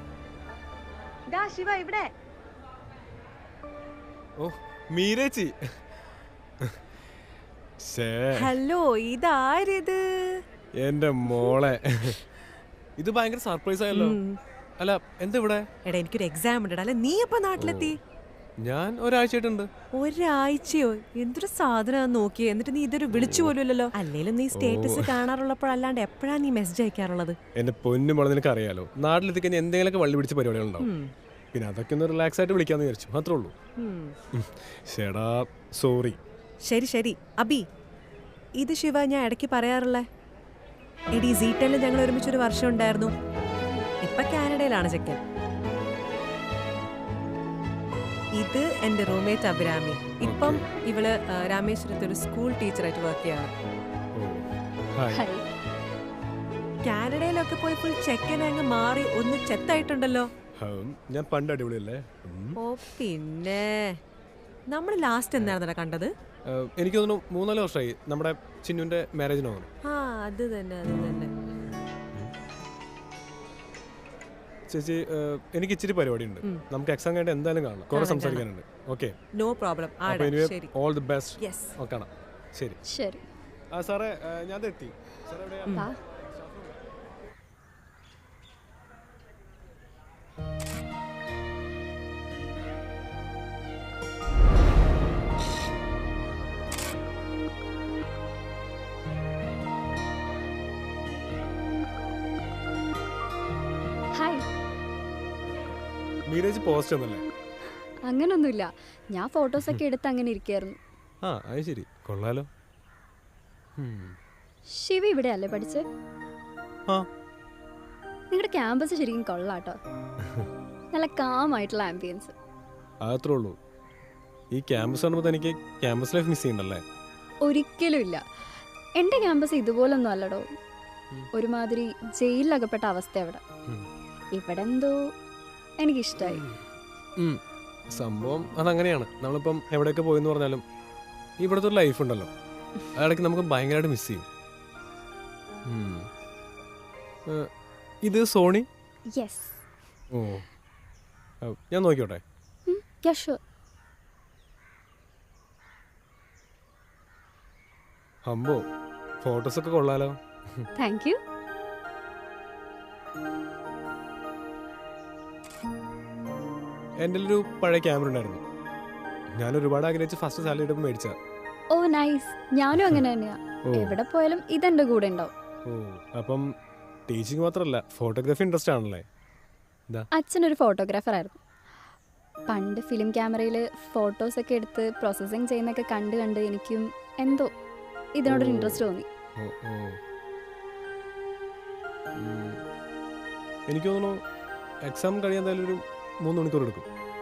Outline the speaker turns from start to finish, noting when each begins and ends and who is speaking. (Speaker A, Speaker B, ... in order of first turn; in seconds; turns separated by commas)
Speaker A: 1.3-2.1, Speaker B: 4.4-5.6, Speaker B: 7.8-8.5, Speaker A: 8.3-10.3, Speaker B: 10.8-12.2, Speaker B: 13.0-14.2, Speaker A: 13.9-14.4, Speaker B: 14.8-15.7, Speaker A: 15.8-18.0, Speaker B: 17.6-17.9, Speaker B: 18.6-19.7, Speaker A: 19.9-27.4, Speaker B: 23.1-23.5, Speaker B: 24.5-25.2, Speaker B: 27.6-30.9, Speaker A: 30.8-31.1, Speaker B: 31.5-33.5, Speaker A: 33.8-34.1, Speaker B: 34.3-36.2, Speaker A: 36.6-37.6, Speaker A: 38.6-40.0, Speaker A: 41.1-43.1, Speaker A: 44.0-45.2, Speaker A: 48.4-53.5, Speaker B: 50.2-50.7, Speaker B: 54.1-55.2, Speaker C: 55.1-55.4, Speaker A: 56.8-60.3, Speaker B: 60.6-62.6, Speaker A: 62.6-64.0, Speaker A: 64.7-66.1, Speaker B: 66.5-69.7, Speaker A: 69.8-71.3, Speaker B: 74.7-79.1, Speaker A: 77.9-78.4, Speaker A: 79.4-80.7, Speaker B: 80.0-82.8, Speaker A: 81.4-81.7, Speaker C: 82.8-83.2, Speaker B: 83.7-86.7, Speaker C: 104.1-104.4, Speaker B: 106.3-107.3, Speaker C: 108.1-110.8, Speaker B: 111.2-112.5, Speaker B: 113.8-114.2, Speaker C: 114.7-115.8, Speaker C: 118.3-119.8, Speaker C: 120.9-122.3, Speaker B: 123.0-123.5, Speaker B: 124.5-126.8, Speaker C: 127.4-128.2, Speaker C: 129.0-130.4, Speaker C: 131.3-133.4, Speaker C: 134.3-135.0, Speaker C: 135.8-136.4, Speaker B: 136.2-136.6, Speaker B: 137.9-140.6, Speaker B: 141.4-142.3, Speaker B: 142.9-144.2, Speaker B: 145.7-146.1, Speaker B: 148.0-148.7, Speaker C: 149.2-149.6, Speaker B: 150.1-150.4, Speaker B: 151.4-152.2, Speaker C: 152.7-153.4, Speaker B: 158.2-158.6, Speaker B: 159.2-160.7, Speaker C: 160.8-161.2, Speaker B: 167.0-168.4, Speaker B: 169.4-171.1, Speaker C: 171.7-175.3, Speaker B: 173.7-174.0, Speaker B: 175.7-176.5, Speaker B: 177.1-179.0, Speaker C: 180.2-181.4, Speaker C: 182.5-187.5, Speaker C: 188.2-189.1, Speaker B: 188.2-190.0, Speaker B: 192.2-192.6, Speaker B: 193.7-194.2, Speaker B: 194.8-196.9